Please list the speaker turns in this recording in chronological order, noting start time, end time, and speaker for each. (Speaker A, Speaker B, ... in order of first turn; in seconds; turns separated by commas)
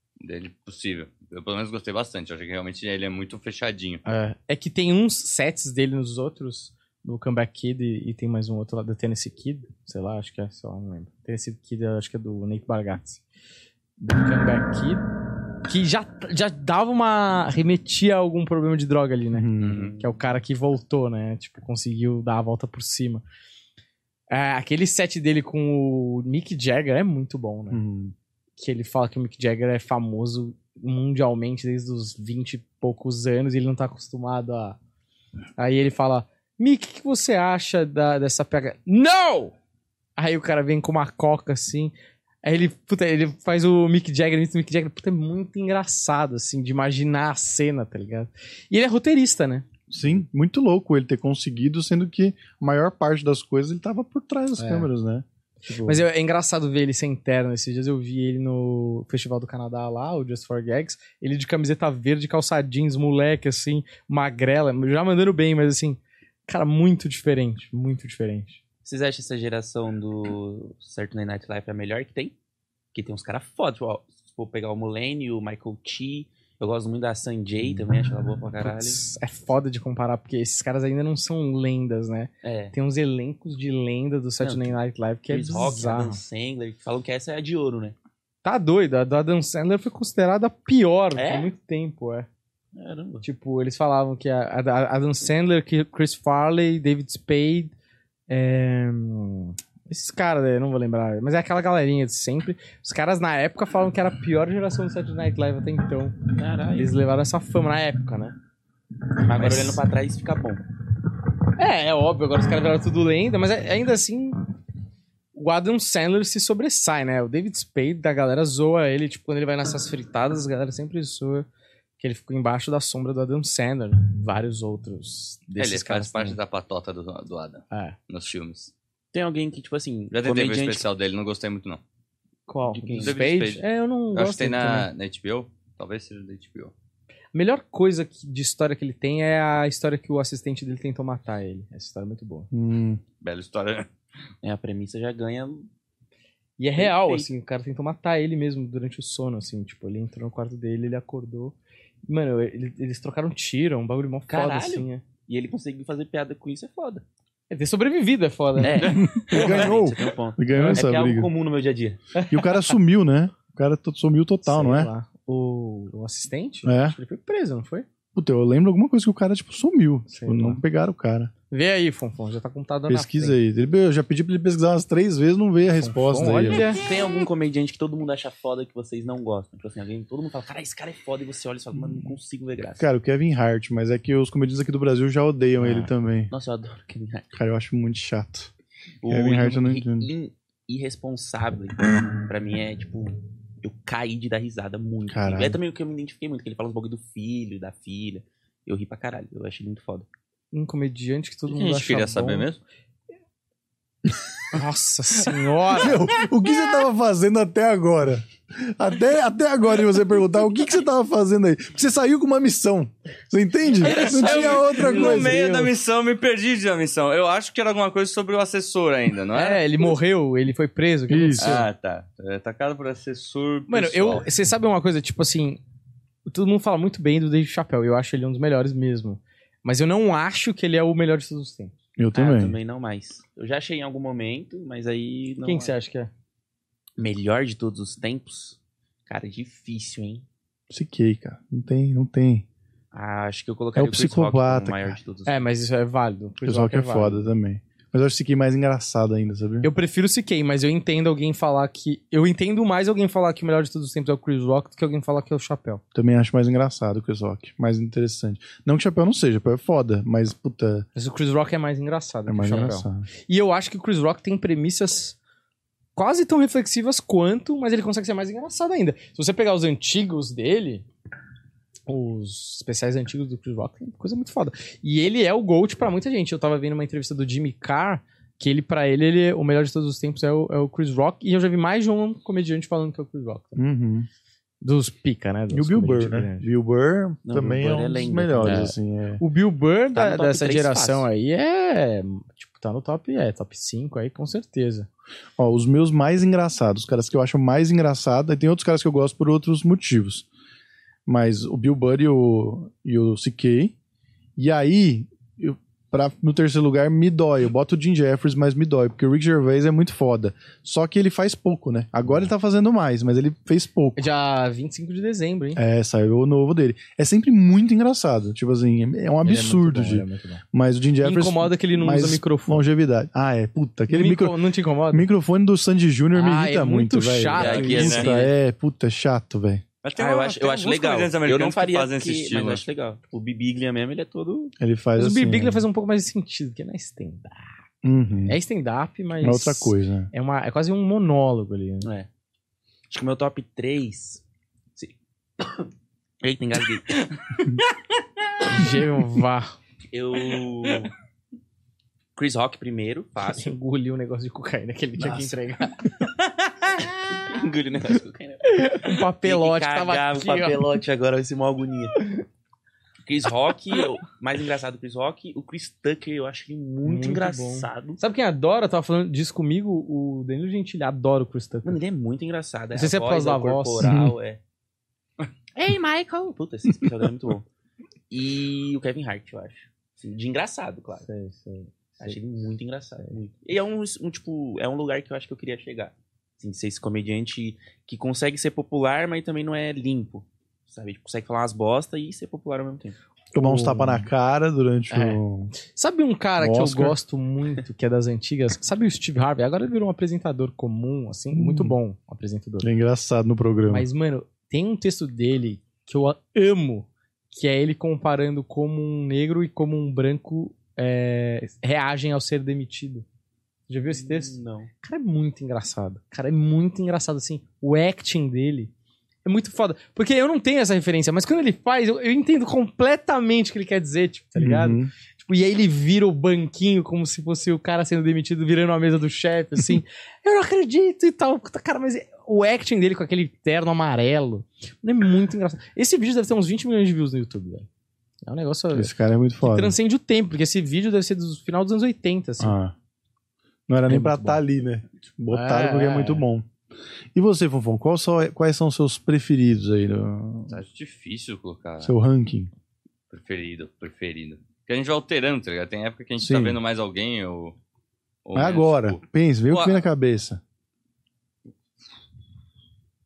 Speaker A: 0.2-4.0, Speaker B: 4.0-13.2, Speaker B: 14.0-15.0, Speaker B: 15.7-23.2, Speaker C: 19.3-19.8, Speaker A: 19.6-19.9, Speaker D: 19.7-20.1, Speaker B: 24.3-27.8, Speaker C: 27.7-28.1, Speaker B: 28.6-34.8, Speaker B: 35.6-39.5, Speaker B: 40.2-49.7, Speaker C: 49.9-56.0, Speaker B: 54.6-54.9, Speaker B: 55.8-68.6, Speaker D: 68.8-72.3, Speaker D: 72.9-79.0, Speaker B: 78.6-86.2, Speaker D: 82.4-82.7, Speaker D: 84.4-84.8, Speaker D: 85.3-88.0, Speaker B: 88.4-92.3, Speaker D: 91.2-91.5, Speaker D: 92.8-93.2, Speaker B: 93.2-97.7, Speaker B: 98.3-106.2, Speaker D: 106.4-106.9, Speaker B: 106.7-108.4, Speaker D: 109.2-110.6, Speaker B: 109.4-109.8, Speaker B: 111.6-114.4, Speaker B: 115.3-121.5, Speaker B: 122.0-126.4, Speaker A: 125.6-128.7, Speaker B: 127.7-128.0, Speaker D: 129.1-130.9, Speaker A: 130.1-131.8, Speaker B: 132.5-134.9, Speaker D: 132.7-133.2, Speaker A: 133.0-136.7, Speaker B: 137.3-142.5, Speaker C: 142.5-143.0, Speaker A: 143.2-143.9, Speaker D: 144.4-145.7, Speaker B: 146.6-151.6, Speaker D: 146.8-147.3, Speaker B: 152.1-155.0, Speaker D: 154.3-157.1, Speaker B: 157.5-158.9, Speaker D: 158.6-162.0, Speaker A: 158.8-159.6, Speaker C: 158.8-161.3, Speaker B: 160.6-160.8, Speaker B: 162.2-162.7, Speaker C: 162.3-164.9, Speaker B: 164.4-167.9, Speaker C: 166.7-167.0, Speaker C: 168.2-171.3, Speaker B: 170.1-170.6, Speaker B: 171.5-173.4, Speaker C: 172.9-176.7, Speaker B: 175.7-176.8, Speaker D: 176.8-182.9, Speaker C: 182.8-186.3, Speaker B: 185.6-185.9, Speaker D: 186.3-187.3, Speaker C: 187.3-188.5, Speaker D: 189.0-200.1, Speaker C: 189.1-190.1, Speaker C: 195.1-195.6, Speaker B: 200.5-202.5, Speaker A: 201.5-202.6, Speaker B: 204.5-206.0, Speaker C: 205.8-215.7, Speaker A: 213.8-219.9, Speaker B: 214.0-215.6, Speaker B: 219.3-221.7, Speaker C: 221.1-221.7, Speaker A: 221.4-224.3, Speaker B: 223.7-225.6, Speaker B: 226.3-231.7, Speaker C: 232.0-232.6, Speaker D: 232.1-235.7, Speaker B: 235.4-236.1, Speaker D: 237.0-240.3, Speaker C: 240.7-242.4, Speaker D: 242.9-245.4, Speaker C: 243.8-245.0, Speaker B: 245.3-247.2, Speaker C: 246.4-249.7, Speaker B: 249.6-255.8, Speaker C: 255.9-260.9, Speaker B: 260.9-265.2, Speaker C: 262.3-263.1, Speaker B: 266.0-270.9, Speaker B: 271.9-283.6, Speaker C: 283.6-284.1, Speaker B: 284.6-286.5, Speaker C: 285.5-289.2, Speaker D: 287.2-288.7, Speaker B: 288.4-294.9, Speaker D: 289.9-291.1, Speaker C: 295.4-300.3, Speaker C: 301.1-303.7, Speaker C: 304.4-314.0, Speaker B: 314.0-315.6, Speaker C: 315.6-324.4, Speaker B: 319.2-320.4, Speaker B: 321.0-322.6, Speaker B: 323.9-325.1, Speaker C: 324.9-329.6, Speaker B: 326.1-328.1, Speaker A: 327.4-328.1, Speaker D: 327.4-328.3, Speaker A: 329.8-332.6, Speaker D: 330.0-334.5, Speaker C: 334.6-335.6, Speaker B: 335.0-337.5, Speaker C: 337.8-338.4, Speaker B: 338.3-341.9, Speaker C: 339.2-340.1, Speaker D: 341.8-342.1, Speaker D: 342.9-344.2, Speaker D: 344.8-345.7, Speaker D: 346.2-347.2, Speaker B: 348.5-349.6, Speaker D: 349.9-350.9, Speaker D: 352.2-353.5, Speaker B: 353.3-356.9, Speaker D: 357.1-362.0, Speaker B: 358.4-360.6, Speaker D: 363.1-368.0, Speaker B: 366.8-371.8, Speaker D: 371.6-374.4, Speaker B: 372.8-374.0, Speaker C: 373.8-374.1, Speaker D: 375.6-377.5, Speaker D: 378.1-381.1, Speaker B: 381.0-382.2, Speaker D: 382.0-393.0, Speaker C: 393.3-395.5, Speaker B: 393.4-394.1, Speaker B: 394.9-402.7, Speaker C: 396.4-397.0, Speaker C: 401.3-401.8, Speaker C: 402.6-403.9, Speaker B: 403.7-413.1, Speaker B: 413.7-418.7, Speaker D: 413.9-414.7, Speaker B: 419.2-437.7, Speaker C: 424.4-424.9, Speaker B: 438.2-438.9, Speaker C: 438.7-439.8, Speaker B: 439.4-442.6, Speaker C: 442.4-442.7, Speaker C: 443.7-446.5, Speaker B: 443.9-444.4, Speaker B: 445.3-446.2, Speaker C: 447.1-450.6, Speaker A: 450.5-451.9, Speaker C: 451.8-452.5, Speaker A: 453.1-457.6, Speaker C: 456.2-456.6, Speaker A: 458.2-459.8, Speaker C: 458.4-460.4